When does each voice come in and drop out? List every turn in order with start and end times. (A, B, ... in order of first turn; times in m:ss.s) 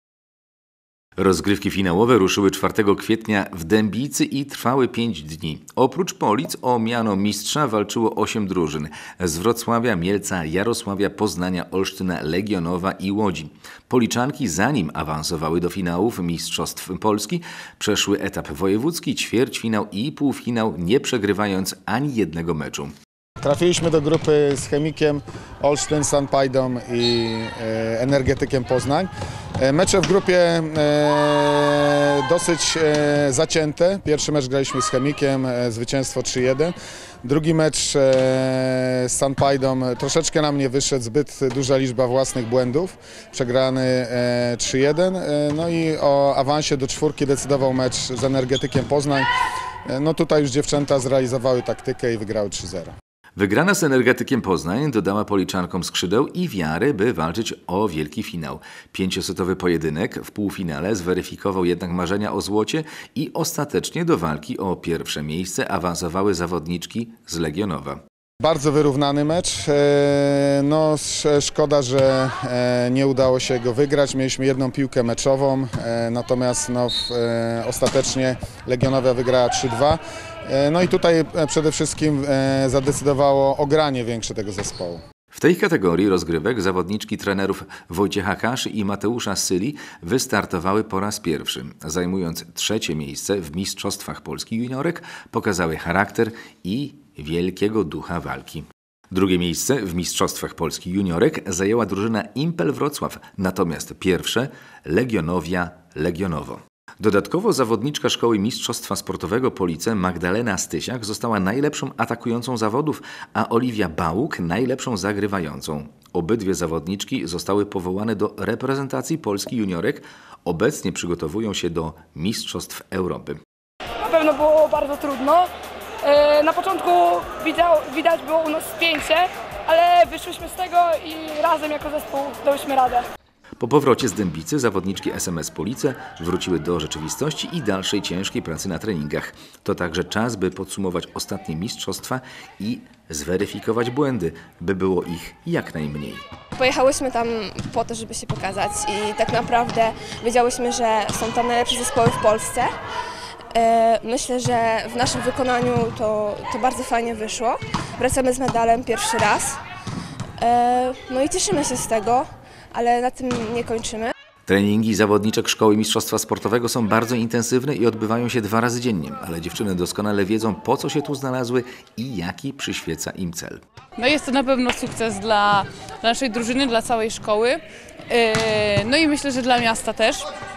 0:01.2-0:22.9 A
0:23.4-0:49.3 B
0:49.9-0:52.9 B
0:53.4-1:08.0 A
1:08.4-1:25.0 B
1:25.3-2:03.4 A
2:04.0-2:05.5 C
2:06.0-2:13.0 C
2:13.6-2:26.2 A
2:26.6-2:32.7 D
2:33.5-2:39.6 D
2:40.4-2:44.1 D
2:44.5-2:53.6 A
2:54.0-3:00.3 E